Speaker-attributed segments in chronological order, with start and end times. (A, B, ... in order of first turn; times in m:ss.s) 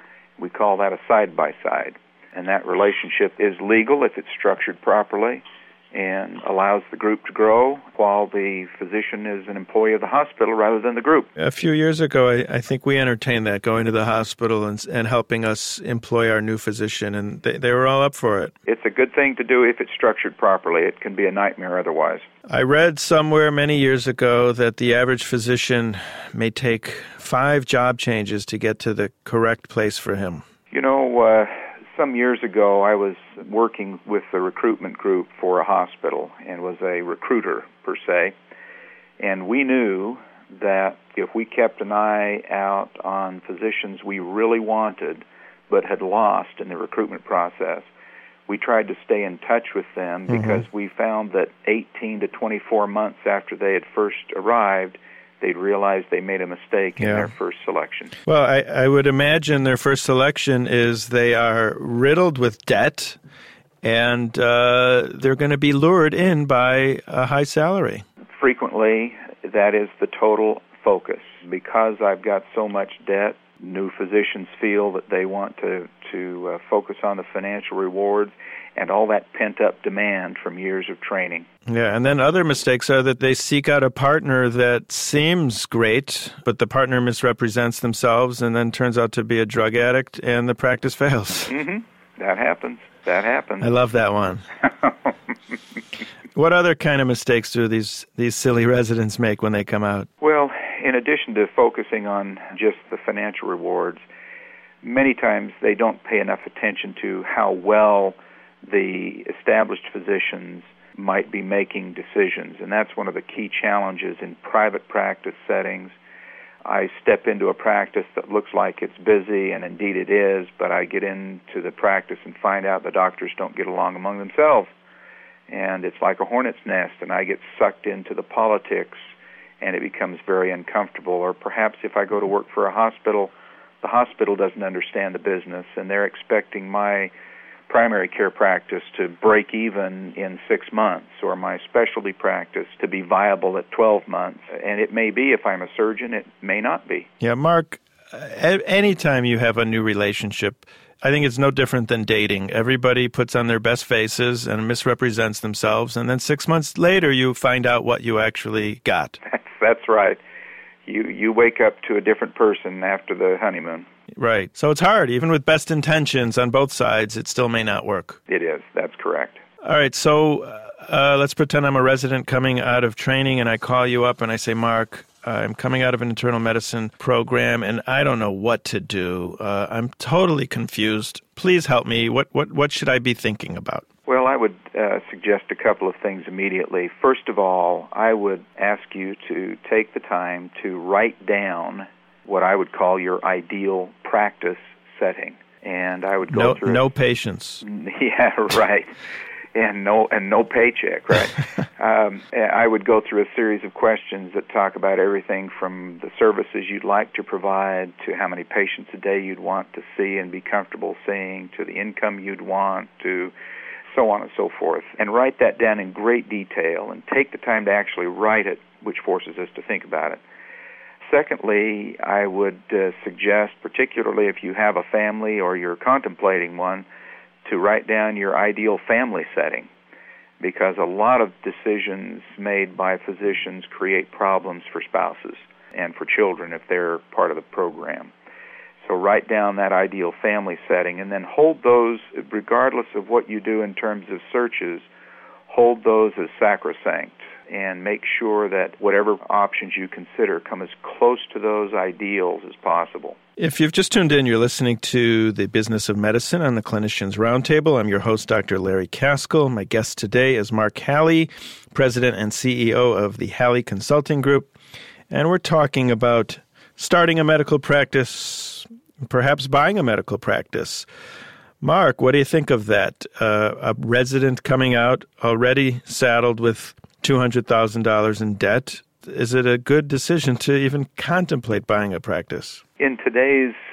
0:00.4-0:11.3 A
0:11.4-0:18.5 B
0:18.7-0:22.3 A
0:22.5-0:30.4 B
0:30.7-0:38.4 A
0:39.2-0:47.9 A
0:48.5-0:58.2 A
0:50.3-0:50.6 B
0:57.0-0:57.3 B
0:58.3-1:03.2 B
1:03.8-1:08.0 B
1:08.4-1:21.5 A
1:21.7-1:31.5 B
1:31.5-1:33.7 A
1:33.6-1:34.4 B
1:36.4-1:40.1 B
1:40.2-1:44.0 A
1:44.8-1:56.0 A
1:56.6-2:04.7 A
2:05.5-2:09.1 A
2:09.6-2:17.1 A
2:17.7-2:27.1 A
2:27.2-2:39.2 B
2:39.3-2:40.2 A
2:40.9-2:43.9 A
2:44.2-2:48.2 B
2:48.3-2:49.4 A
2:49.6-3:03.9 B
3:04.1-3:16.8 A
3:16.3-3:17.6 B
3:17.6-3:18.9 A
3:19.6-3:33.3 A
3:33.9-3:40.2 A
3:41.0-3:46.9 A
3:47.4-3:49.7 A
3:50.4-3:58.1 A
3:58.8-4:04.9 A
4:05.5-4:13.2 A
4:13.4-4:24.5 B
4:25.1-4:30.9 B
4:31.6-4:42.6 B
4:42.8-4:43.6 A